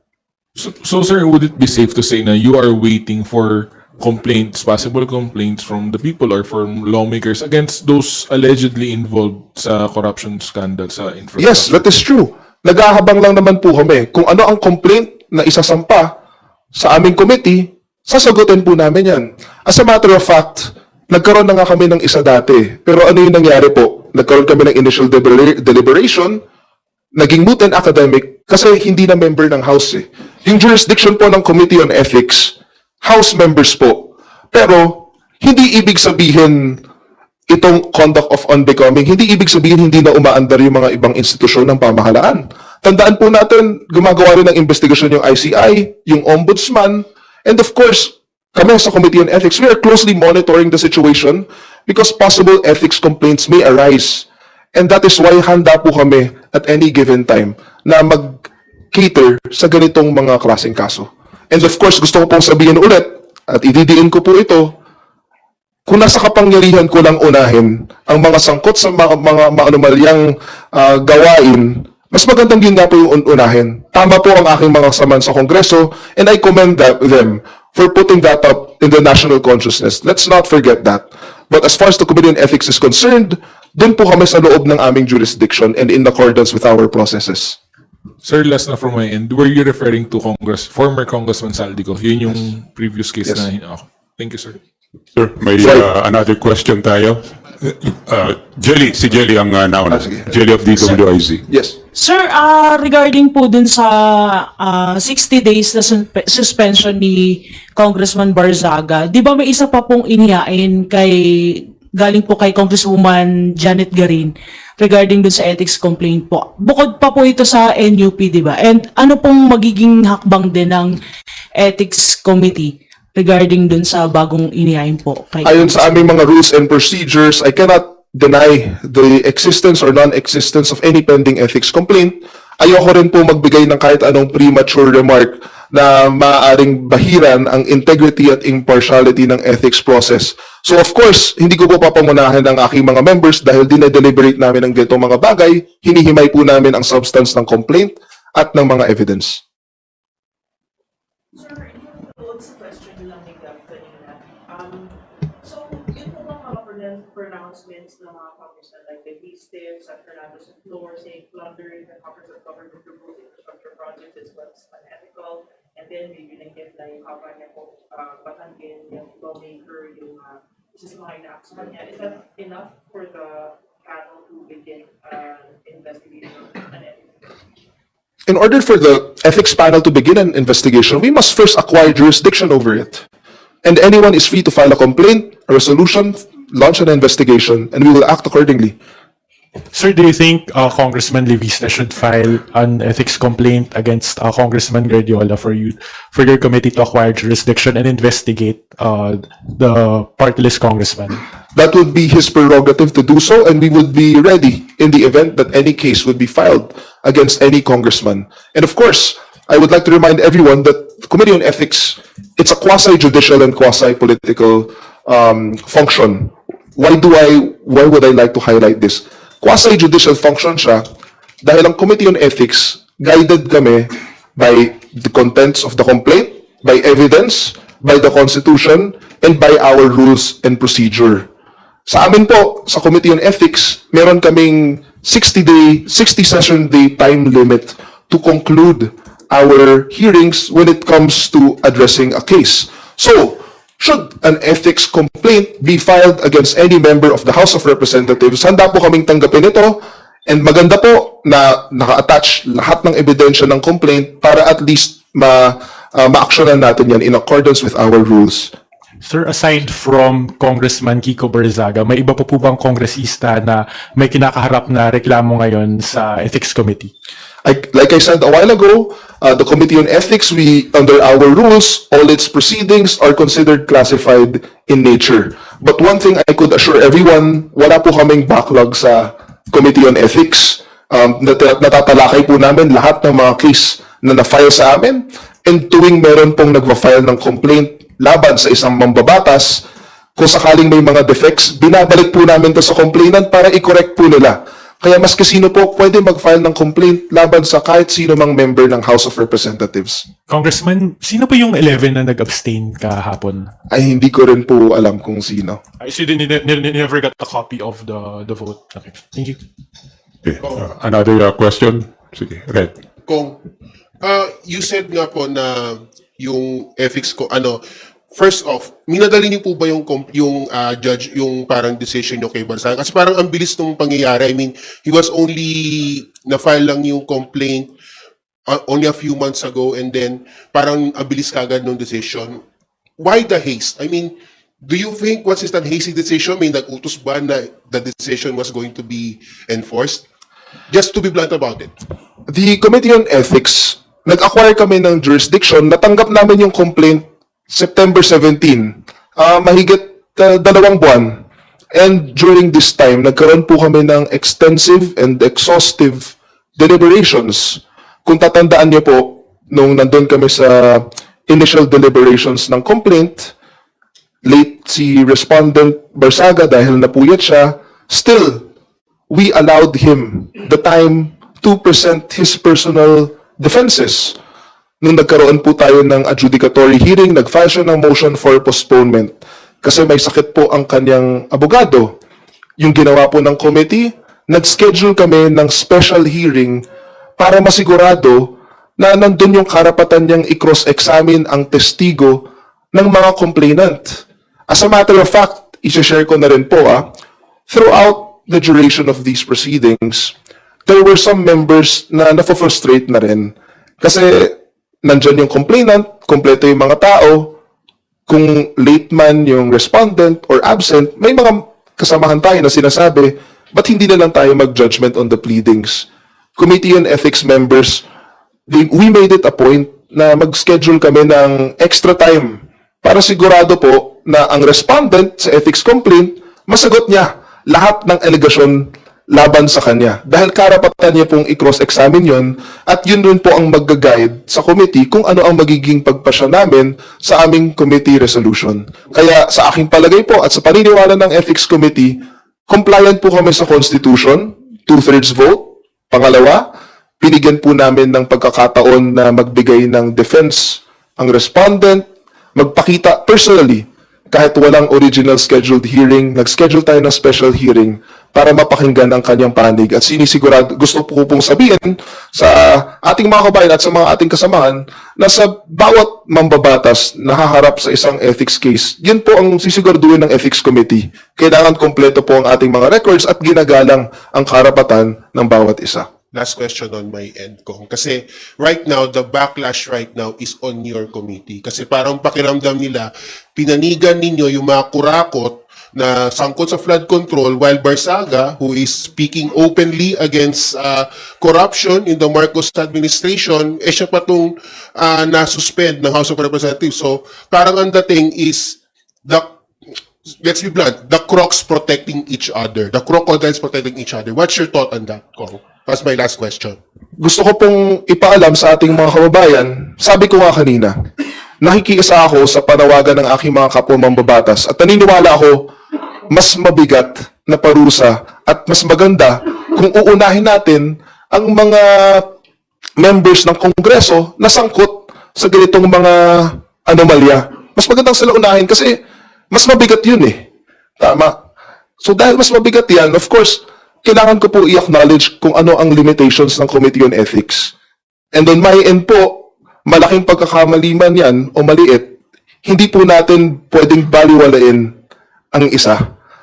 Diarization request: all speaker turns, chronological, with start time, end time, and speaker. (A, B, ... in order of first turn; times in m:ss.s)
0:00.6-0:11.8 A
0:11.4-0:16.1 B
0:16.7-0:26.4 B
0:27.1-0:36.8 B
0:37.5-1:04.7 B
1:05.9-1:27.6 B
1:28.2-1:34.6 A
1:35.1-1:41.4 C
1:35.6-1:35.9 B
1:39.9-1:40.2 B
1:41.5-1:41.8 B
1:41.9-2:01.0 D
2:01.6-2:06.0 D
2:05.4-2:29.4 B
2:31.3-2:57.2 E
2:58.3-3:03.0 B
3:03.6-3:08.7 B
3:09.7-3:21.2 F
3:21.5-3:40.8 B
3:41.4-3:51.3 B
3:51.9-4:18.5 B
4:19.0-4:26.9 F
4:27.4-4:49.6 B
4:50.2-5:00.0 B
5:00.3-5:03.5 F
5:03.7-5:05.6 B
5:05.8-5:09.4 F
5:10.2-5:12.7 C
5:13.1-5:13.4 G
5:14.0-5:27.7 G
5:28.5-5:32.4 G
5:33.0-5:40.0 G
5:40.7-5:41.7 G
5:42.3-5:51.2 B
5:51.7-6:03.3 B
6:04.2-6:08.4 B
6:09.1-6:14.2 B
6:14.8-6:21.9 B
6:22.6-6:26.6 B
6:27.2-6:36.9 B
6:37.5-6:40.1 B
6:40.7-6:47.3 B
6:48.1-6:57.8 B
6:58.5-7:26.5 B
7:27.0-7:31.8 B
7:32.4-7:55.9 B
7:56.1-8:19.3 G
8:20.2-8:26.6 G
8:27.0-8:30.8 B
8:31.4-8:35.5 B
8:36.1-8:42.1 B
8:42.8-8:48.8 B
8:49.3-8:50.2 B
8:50.8-8:51.1 B
8:51.8-8:57.5 B
8:58.1-9:01.9 B
9:02.4-9:04.7 B
9:05.3-9:05.8 B